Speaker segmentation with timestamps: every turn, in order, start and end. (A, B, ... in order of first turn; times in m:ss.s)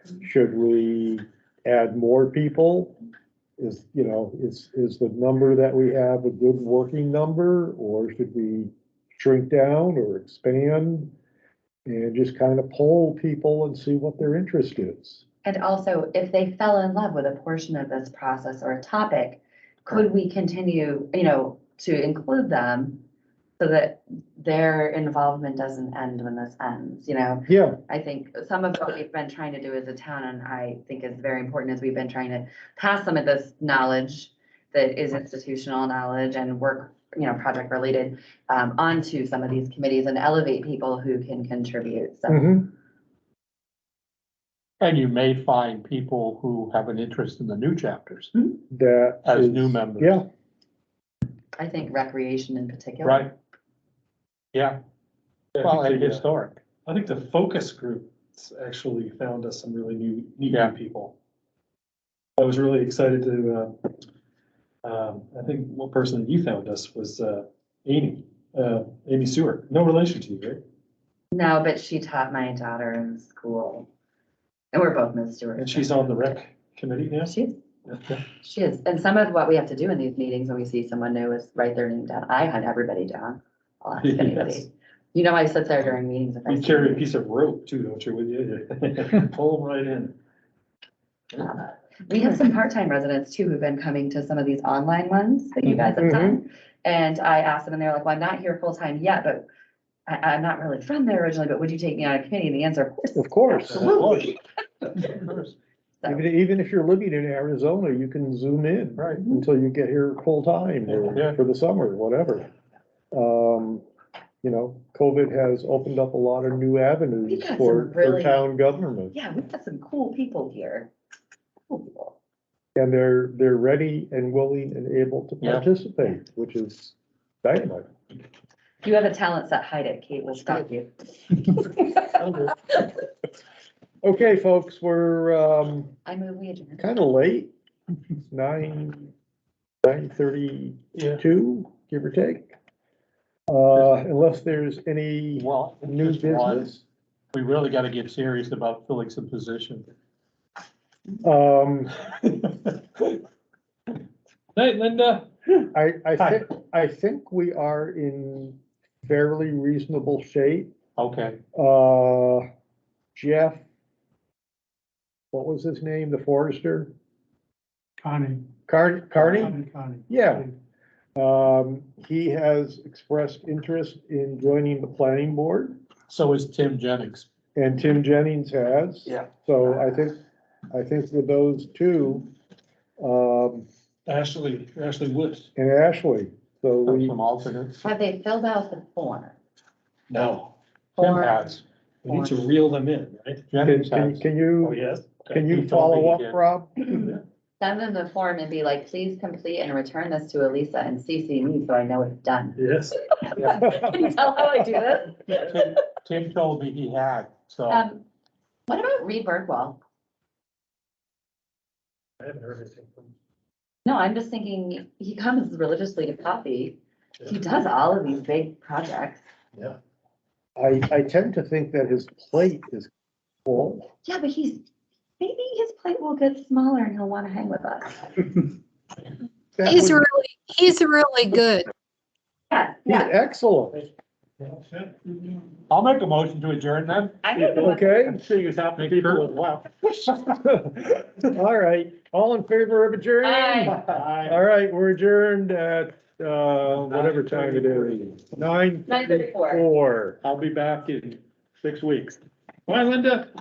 0:00.2-0:03.0 A
0:03.6-0:11.1 A
0:11.9-0:15.2 A
0:15.4-0:23.0 B
0:23.6-0:42.6 B
0:27.5-0:27.8 A
0:42.3-0:42.7 A
0:44.8-0:48.3 C
0:48.4-0:50.2 A
0:49.2-0:50.2 C
0:51.6-0:53.3 B
0:53.0-0:53.3 C
0:55.6-0:56.2 D
0:55.6-0:56.6 C
0:56.9-1:01.2 D
1:00.5-1:00.8 C
1:02.4-1:03.9 D
1:04.8-1:10.6 D
1:11.3-1:13.9 B
1:14.7-1:16.4 B
1:15.6-1:17.4 D
1:17.3-1:17.6 B
1:17.9-1:18.2 D
1:18.4-1:27.0 B
1:24.0-1:24.6 D
1:26.5-1:30.2 D
1:31.4-1:39.4 B
1:35.9-1:36.4 A
1:40.1-1:44.4 B
1:43.2-1:44.1 A
1:43.8-1:44.3 C
1:45.0-1:45.6 C
1:46.1-1:52.5 A
1:49.0-1:49.2 C
1:49.2-1:49.5 B
1:51.0-1:51.4 C
1:53.1-1:53.8 A
1:54.4-1:59.1 A
1:57.3-1:58.4 B
1:59.1-2:00.9 B
2:01.7-2:02.2 B
2:02.8-2:07.9 A
2:05.4-2:05.7 C
2:08.8-2:12.0 B
2:12.2-2:12.5 D
2:14.0-2:15.9 A
2:16.1-2:16.8 B
2:16.8-2:17.5 A
2:18.3-2:19.1 A
2:19.8-2:22.5 A
2:23.5-2:26.8 A
2:25.4-2:26.7 C
2:27.3-2:29.9 C
2:31.2-2:32.0 A
2:32.5-2:33.2 D
2:34.6-2:35.7 D
2:35.7-2:40.7 A
2:41.0-2:41.4 C
2:41.6-2:42.5 A
2:43.2-2:43.6 A
2:45.3-2:46.9 A
2:48.0-2:48.4 E
2:48.7-2:50.5 A
2:49.5-2:50.0 E
2:51.2-2:55.8 A
2:56.1-2:57.3 C
2:57.6-3:00.2 A
3:00.7-3:02.3 A
3:03.0-3:03.7 A
3:04.1-3:05.5 D
3:05.6-3:07.2 A
3:06.9-3:07.8 C
3:07.8-3:09.4 B
3:10.1-3:10.6 D
3:11.0-3:11.5 B
3:11.0-3:11.6 C
3:12.0-3:13.5 D
3:12.1-3:12.4 B
3:13.5-3:14.2 C
3:13.6-3:14.8 A
3:14.6-3:15.4 D
3:15.3-3:17.1 A
3:15.4-3:16.4 C
3:17.6-3:25.8 B
3:22.6-3:23.0 D
3:23.7-3:24.1 A
3:25.3-3:27.8 C
3:27.7-3:28.0 B
3:28.7-3:29.8 B
3:32.2-3:33.1 D
3:33.8-3:39.2 B
3:40.6-3:42.9 A
3:43.4-3:43.9 A
3:44.0-3:44.6 B
3:45.2-3:48.1 B
3:49.6-3:50.0 A
3:49.6-3:51.7 E
3:52.5-3:53.1 B
3:52.9-3:53.9 A
3:55.7-4:00.2 C
3:57.2-3:58.0 B
3:57.6-3:58.2 A
4:00.3-4:10.2 A
4:03.2-4:03.8 B
4:03.7-4:04.2 C
4:03.9-4:04.2 D
4:06.9-4:08.2 C
4:08.9-4:09.6 B
4:10.2-4:13.3 C